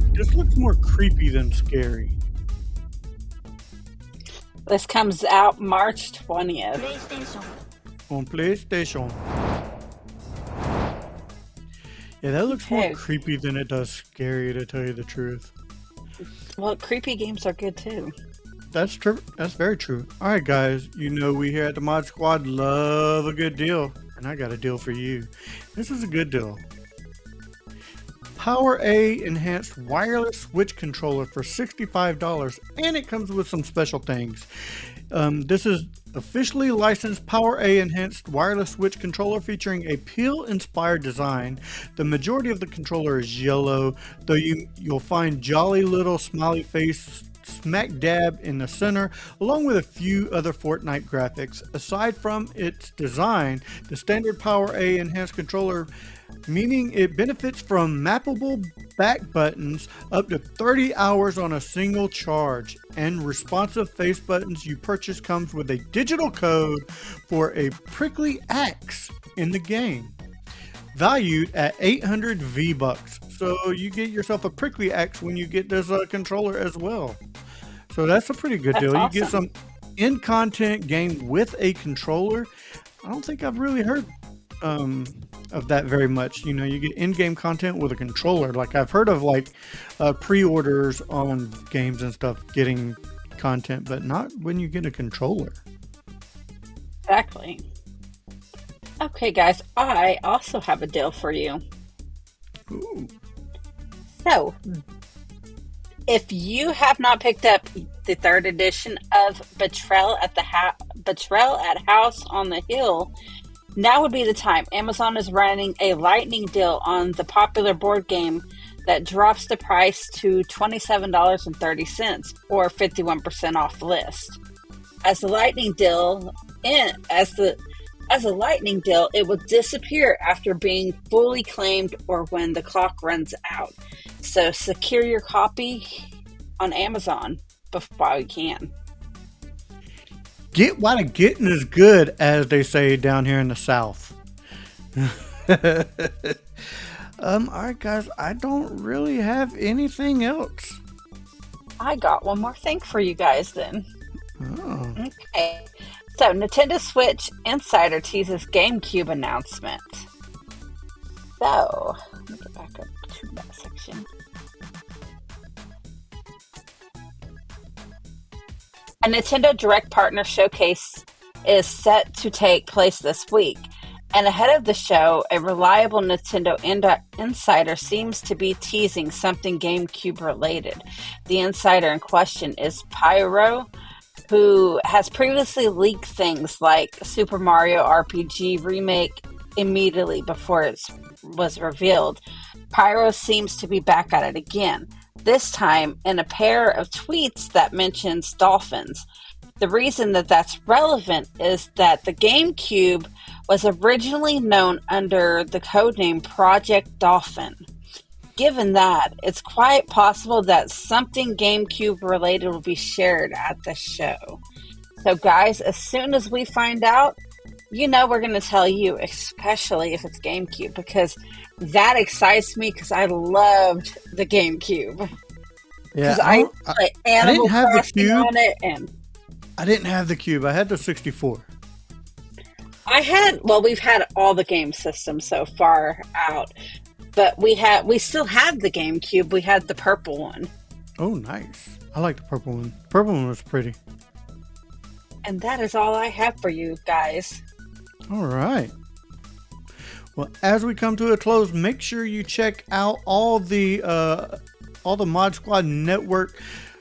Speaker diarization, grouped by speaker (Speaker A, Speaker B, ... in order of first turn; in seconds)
Speaker A: 0.1-2.1, 8.1-9.2, 12.2-15.5, 18.7-26.6, 28.4-34.5, 35.1-55.9, 56.5-70.2, 70.9-77.2, 77.9-82.5, 83.0-84.1, 84.6-95.6, 102.7-103.1, 140.5-144.1, 145.0-146.3, 147.2-150.8, 154.4-155.0, 225.9-228.3, 229.6-231.5, 241.0-243.8, 248.1-248.7, 250.2-256.4
Speaker B: 4.7-6.9, 12.5-13.0, 16.6-18.1, 78.7-79.4, 97.1-97.6, 99.0-101.6, 104.2-104.6, 106.1-113.1, 113.8-124.4, 125.0-136.0, 136.6-138.7, 151.8-153.8, 155.0-160.1, 161.4-164.1, 169.0-183.7, 184.3-192.2, 192.7-199.1, 199.6-207.6, 208.4-214.4, 215.0-217.2, 217.7-225.1, 226.0-228.9, 232.9-236.5, 237.2-240.5, 245.2-247.4